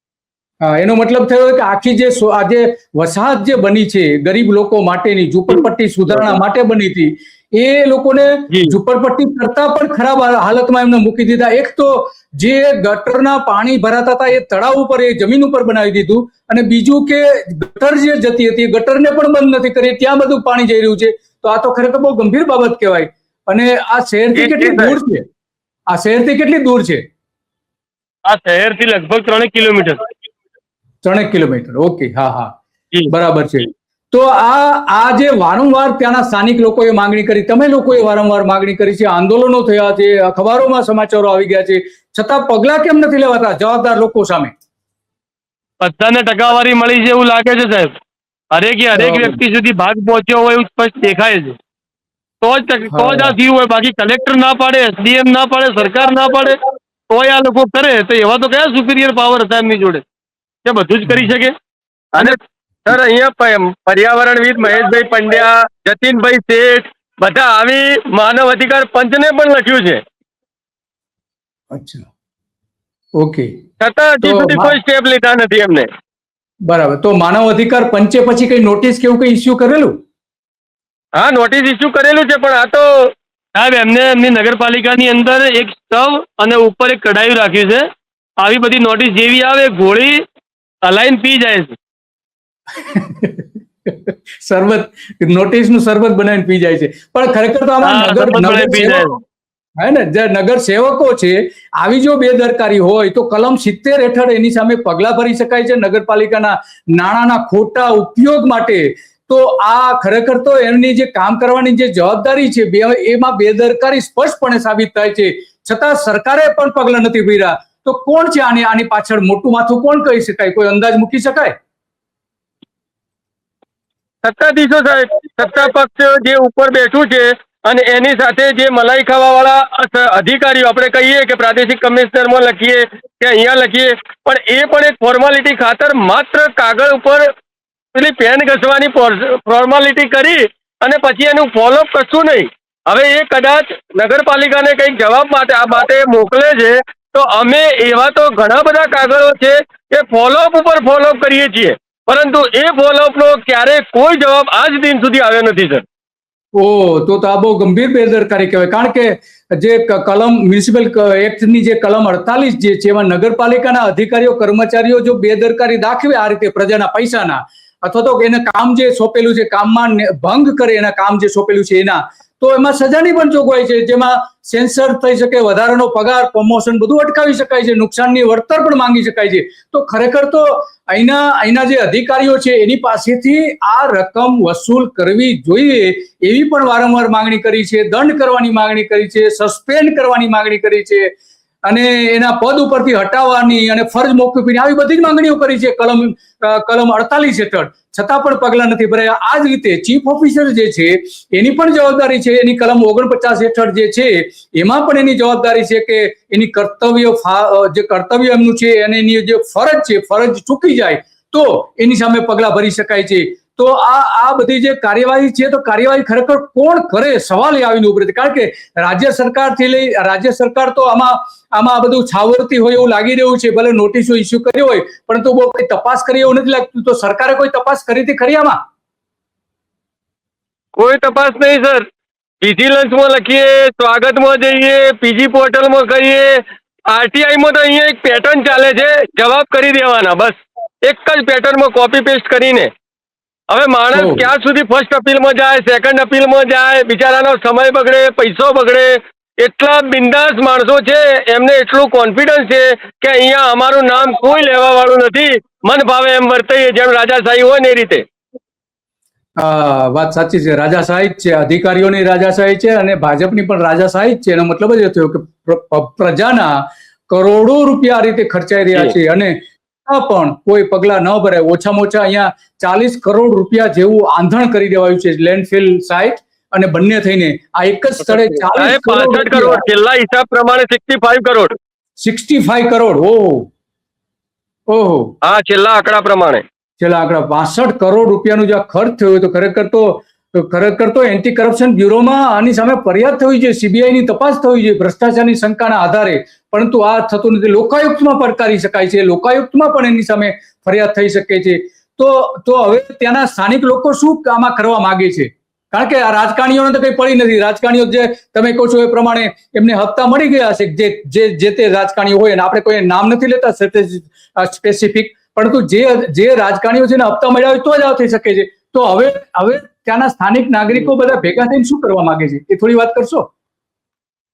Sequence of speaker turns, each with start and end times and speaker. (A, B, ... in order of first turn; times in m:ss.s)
0:00.6-0:25.3 A
0:08.5-0:08.8 B
0:24.3-0:25.0 C
0:25.9-0:27.0 A
0:28.3-0:30.0 B
0:31.0-0:32.6 A
0:33.1-0:44.5 A
0:45.8-0:48.0 B
0:48.5-0:51.6 B
0:49.0-0:49.4 A
0:52.4-0:56.6 B
0:52.9-0:53.4 A
0:57.1-1:00.0 B
1:00.6-1:01.5 B
1:01.1-1:01.3 A
1:02.2-1:10.0 C
1:11.7-1:12.1 A
1:13.2-1:13.5 A
1:13.8-1:15.9 C
1:14.2-1:14.8 A
1:16.7-1:20.0 A
1:21.2-1:23.1 C
1:23.6-1:27.9 B
1:28.4-1:30.2 B
1:30.8-1:31.8 B
1:32.7-1:39.2 A
1:37.8-1:39.2 B
1:39.8-2:01.6 A
2:04.2-2:17.3 C
2:17.9-2:35.8 C
2:36.6-3:11.1 A
3:11.7-3:48.6 A
3:50.8-3:51.8 C
3:52.4-4:02.7 C
4:03.5-4:18.0 C
4:03.9-4:04.3 A
4:19.4-4:26.5 A
4:27.1-4:39.6 A
4:38.5-4:41.6 C
4:42.0-4:43.5 A
4:44.7-4:45.1 A
4:45.2-4:46.4 C
4:46.8-5:23.3 A